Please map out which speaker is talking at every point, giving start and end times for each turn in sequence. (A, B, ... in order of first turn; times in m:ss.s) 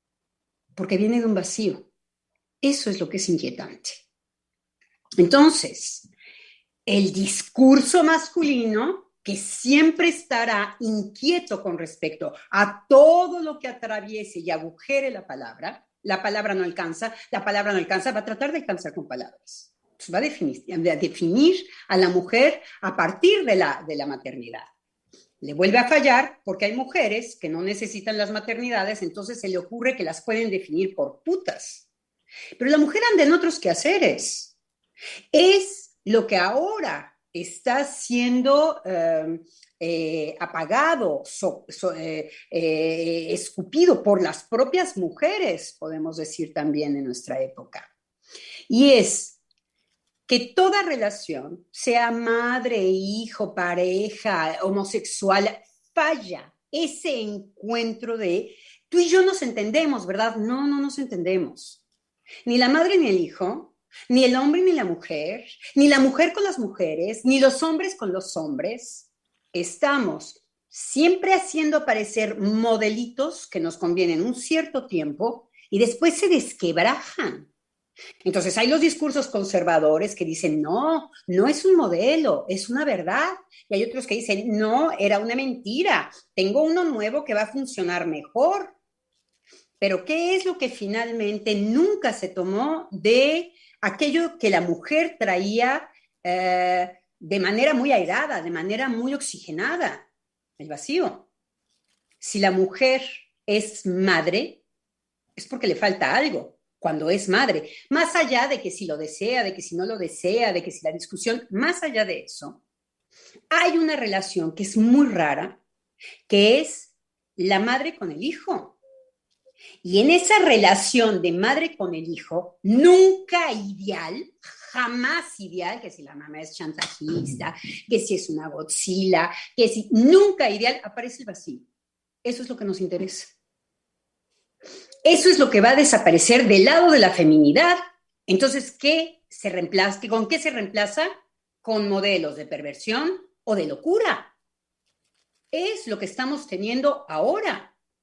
0:00.8-0:01.8 A
0:02.6-0:04.0 A
0:05.2-0:06.1 A
0:06.9-0:24.7 A
0:25.4-0:31.9 A
0:32.6-0:34.5 A
0:35.3-0:47.9 A
0:48.7-0:49.4 A
0:50.3-1:01.8 A
1:02.5-1:17.4 A
1:18.2-1:28.7 A
1:29.8-1:40.0 A
1:40.6-1:41.2 A
1:42.2-1:44.6 A
1:45.4-1:52.6 A
1:53.5-1:55.6 A
1:56.3-1:58.8 A
1:59.8-2:11.6 A
2:12.2-2:13.3 A
2:15.0-2:21.1 A
2:21.6-2:24.3 A
2:25.5-2:27.7 A